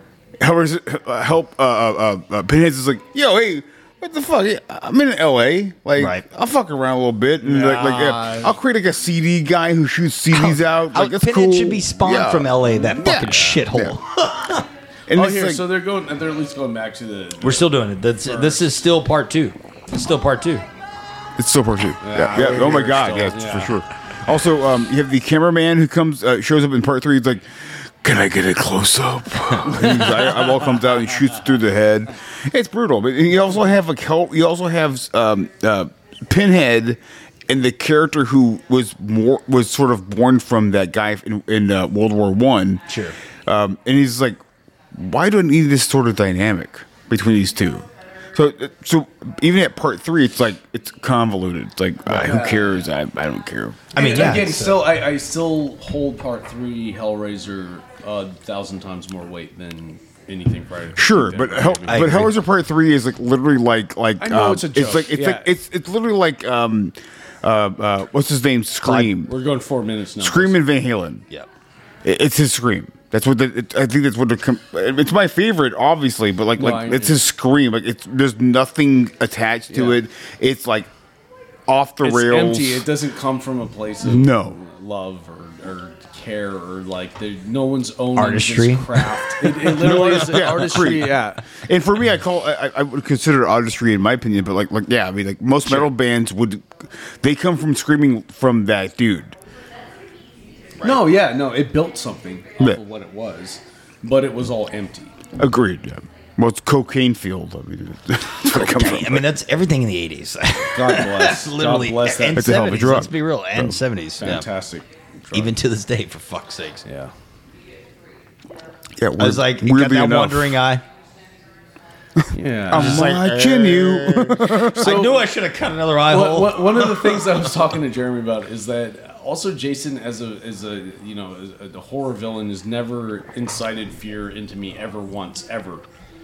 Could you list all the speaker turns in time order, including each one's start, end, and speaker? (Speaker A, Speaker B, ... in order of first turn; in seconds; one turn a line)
Speaker A: 0.4-14.0
Speaker B: 6.0-6.2
Speaker C: 7.4-8.5
Speaker B: 10.3-14.7
Speaker C: 13.1-13.5
Speaker A: 15.1-15.6
Speaker C: 15.1-18.7
Speaker B: 17.4-20.6
Speaker A: 21.4-42.9
Speaker C: 22.0-23.8
Speaker B: 22.4-23.0
Speaker B: 42.9-43.2
Speaker A: 43.5-44.4
Speaker A: 45.0-53.9
Speaker C: 52.1-52.8
Speaker B: 53.9-54.9
Speaker C: 53.9-62.3
Speaker A: 61.0-69.3
Speaker B: 61.9-62.3
Speaker C: 64.2-65.5
Speaker B: 68.8-69.1
Speaker C: 69.2-70.6
Speaker A: 70.2-71.3
Speaker A: 72.0-80.9
Speaker C: 76.6-77.2
Speaker C: 79.7-80.0
Speaker A: 81.7-82.9
Speaker C: 82.0-91.4
Speaker A: 84.0-84.6
Speaker B: 88.2-90.4
Speaker A: 89.8-99.4
Speaker B: 100.8-101.1
Speaker C: 100.8-105.1
Speaker A: 105.4-109.3
Speaker B: 108.5-114.5
Speaker C: 110.7-112.6
Speaker A: 112.3-113.8
Speaker C: 114.2-115.5
Speaker B: 115.3-116.8
Speaker C: 116.8-117.1
Speaker A: 119.0-120.6
Speaker B: 119.2-120.8
Speaker A: 122.2-125.1
Speaker C: 122.3-123.3
Speaker B: 122.7-127.5
Speaker C: 124.6-125.3
Speaker C: 126.1-135.8